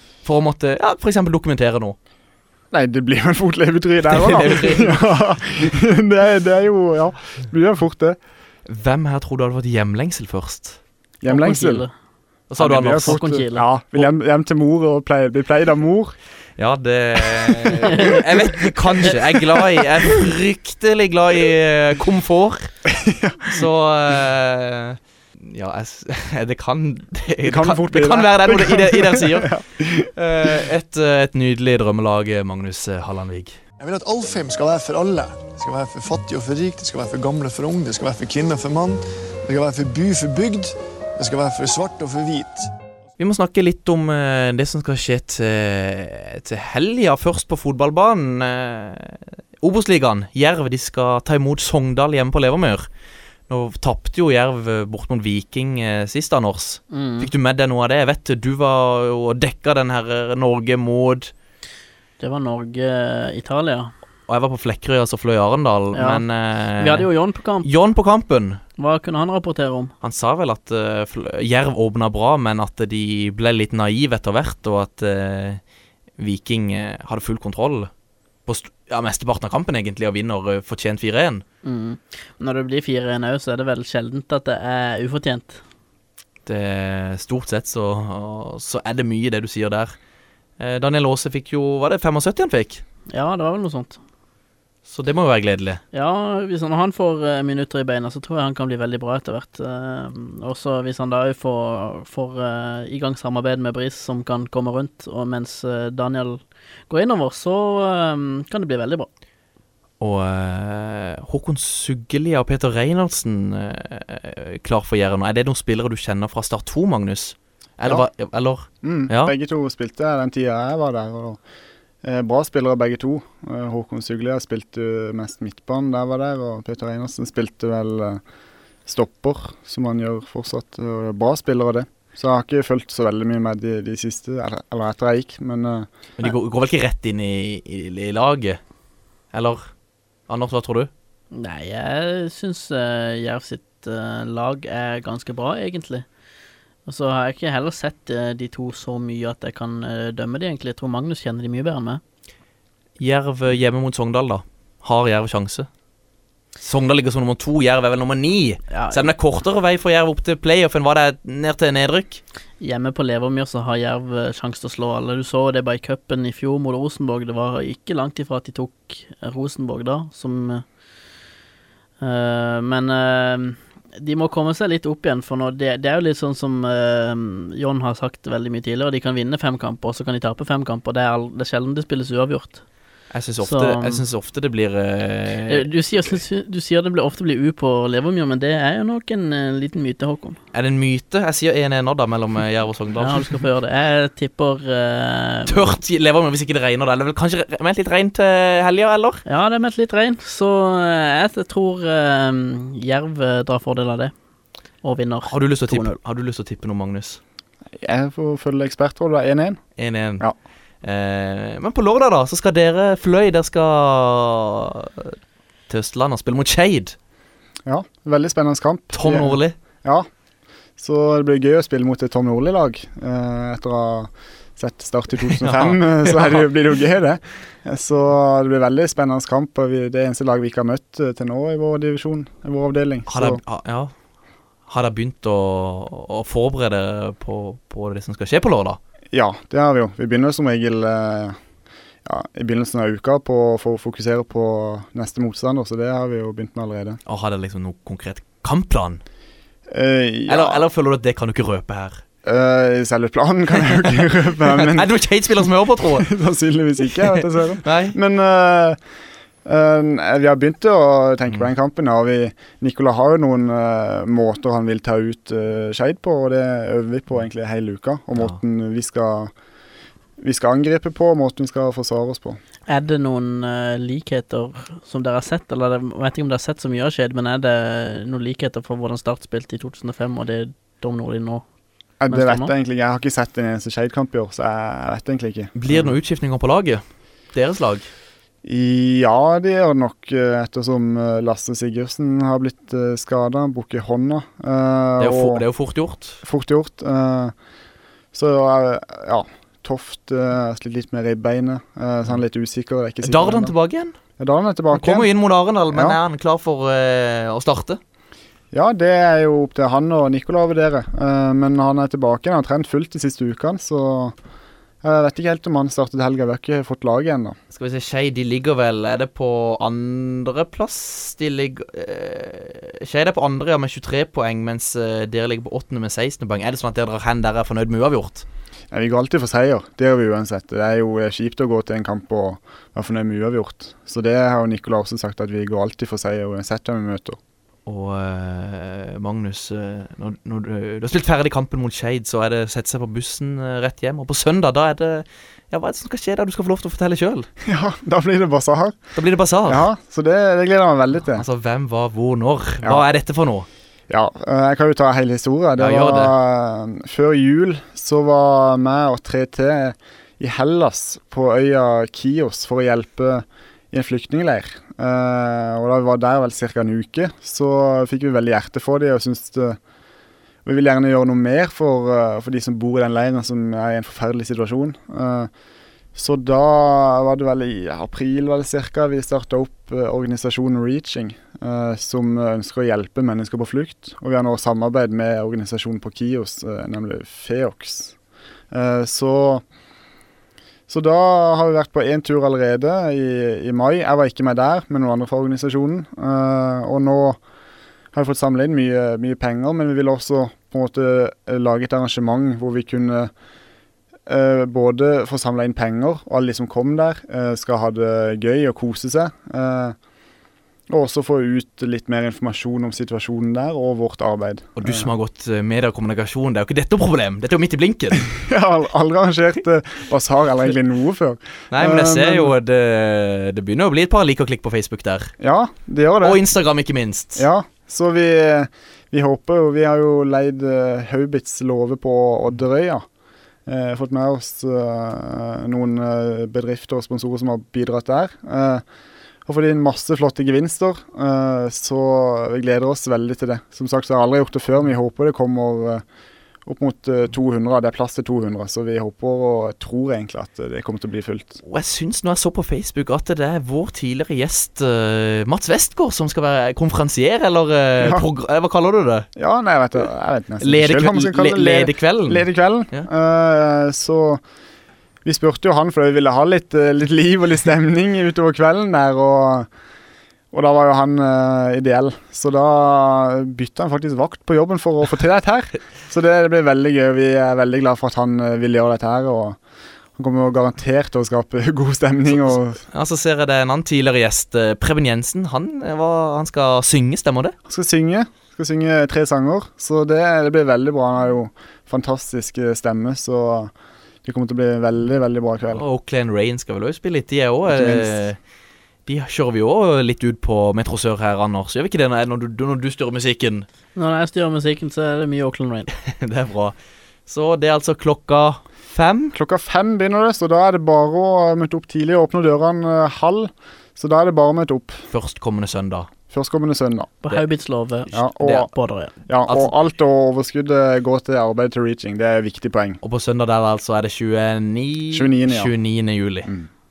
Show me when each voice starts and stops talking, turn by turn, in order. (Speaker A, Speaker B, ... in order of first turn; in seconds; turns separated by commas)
Speaker A: 0.2-2.0, Speaker B: 2.7-8.2, Speaker A: 4.0-5.8, Speaker A: 8.7-10.8, Speaker B: 11.2-11.8, Speaker C: 11.3-11.9, Speaker A: 12.5-13.2, Speaker B: 12.6-16.2, Speaker C: 13.0-13.7, Speaker A: 16.6-22.7, Speaker B: 17.7-18.2, Speaker B: 22.9-23.7, Speaker A: 23.5-33.6, Speaker B: 27.4-30.5, Speaker D: 33.8-42.6, Speaker A: 43.2-52.9, Speaker A: 53.5-61.3, Speaker C: 56.9-57.3, Speaker C: 62.2-63.9, Speaker A: 64.3-67.1, Speaker C: 65.9-66.2, Speaker C: 66.8-67.7, Speaker A: 67.6-68.6, Speaker C: 68.8-69.9, Speaker A: 70.0-75.6, Speaker A: 76.2-77.9, Speaker A: 78.5-81.4, Speaker C: 81.6-85.6, Speaker A: 86.5-90.0, Speaker A: 90.6-92.8, Speaker C: 93.1-94.0, Speaker A: 94.9-95.8, Speaker C: 95.9-109.1, Speaker A: 110.0-119.3, Speaker B: 118.8-121.4, Speaker B: 122.0-128.2, Speaker B: 128.9-135.9, Speaker A: 136.2-138.6, Speaker A: 139.3-139.7, Speaker A: 140.3-140.9, Speaker C: 141.3-146.1, Speaker C: 146.9-152.0, Speaker A: 153.0-155.7, Speaker A: 156.6-162.2, Speaker C: 158.7-159.1, Speaker C: 162.6-170.6, Speaker C: 172.0-182.6, Speaker A: 183.1-186.2, Speaker C: 183.4-184.0, Speaker C: 185.5-190.4, Speaker A: 190.5-193.4, Speaker C: 193.0-195.7, Speaker A: 195.5-199.2, Speaker C: 199.3-204.1, Speaker C: 204.8-205.9, Speaker A: 205.2-207.2, Speaker B: 207.8-209.6, Speaker A: 209.8-210.2, Speaker A: 210.8-215.2, Speaker A: 215.7-216.9, Speaker B: 217.7-220.1, Speaker A: 218.9-219.6, Speaker B: 220.8-233.4, Speaker A: 225.2-226.5, Speaker A: 233.1-233.9, Speaker A: 234.7-238.8, Speaker B: 239.1-241.4, Speaker B: 242.1-247.0, Speaker A: 247.1-249.0, Speaker B: 249.7-250.6, Speaker A: 250.3-252.0, Speaker B: 252.2-254.9, Speaker A: 253.6-256.1, Speaker B: 255.8-258.8, Speaker A: 257.0-258.0, Speaker B: 259.4-269.3, Speaker B: 270.2-272.4, Speaker C: 272.7-281.4, Speaker B: 282.0-285.9, Speaker C: 282.1-282.5, Speaker A: 285.6-287.9, Speaker B: 288.4-295.4, Speaker A: 295.0-296.2, Speaker B: 296.2-297.3, Speaker B: 298.1-303.5, Speaker A: 303.0-303.9, Speaker B: 304.2-305.1, Speaker A: 304.7-307.8, Speaker B: 305.7-306.0, Speaker B: 308.5-314.1, Speaker B: 314.8-317.4, Speaker A: 317.5-328.2, Speaker B: 328.7-337.2, Speaker A: 337.7-347.3, Speaker B: 347.4-348.8, Speaker A: 348.9-349.7, Speaker B: 349.5-351.2, Speaker A: 351.1-353.5, Speaker B: 353.9-369.6, Speaker A: 355.6-356.1, Speaker B: 370.4-375.3, Speaker B: 375.9-387.9, Speaker B: 388.5-389.4, Speaker B: 390.7-397.2, Speaker B: 397.9-403.1, Speaker B: 404.1-409.8, Speaker B: 410.7-414.9, Speaker A: 414.6-418.1, Speaker B: 418.1-422.3, Speaker A: 421.5-425.1, Speaker B: 425.2-426.2, Speaker A: 426.0-427.3, Speaker B: 427.2-432.8, Speaker B: 433.5-438.6, Speaker B: 439.3-445.8, Speaker B: 446.4-451.4, Speaker A: 451.4-459.1, Speaker B: 457.8-458.1, Speaker B: 459.2-464.2, Speaker A: 460.4-462.9, Speaker B: 465.1-469.5, Speaker B: 470.3-479.4, Speaker B: 480.0-482.6, Speaker A: 482.2-487.4, Speaker B: 487.5-493.5, Speaker B: 494.0-495.6, Speaker A: 495.5-498.2, Speaker B: 497.4-497.9, Speaker A: 498.9-503.5, Speaker C: 503.8-505.7, Speaker A: 505.7-506.6, Speaker A: 507.1-509.1, Speaker B: 509.1-514.8, Speaker A: 514.9-515.9, Speaker B: 516.1-517.0, Speaker C: 517.0-518.9, Speaker B: 517.9-518.5, Speaker B: 519.1-522.8, Speaker A: 519.3-519.5, Speaker A: 522.8-526.3, Speaker B: 524.9-525.5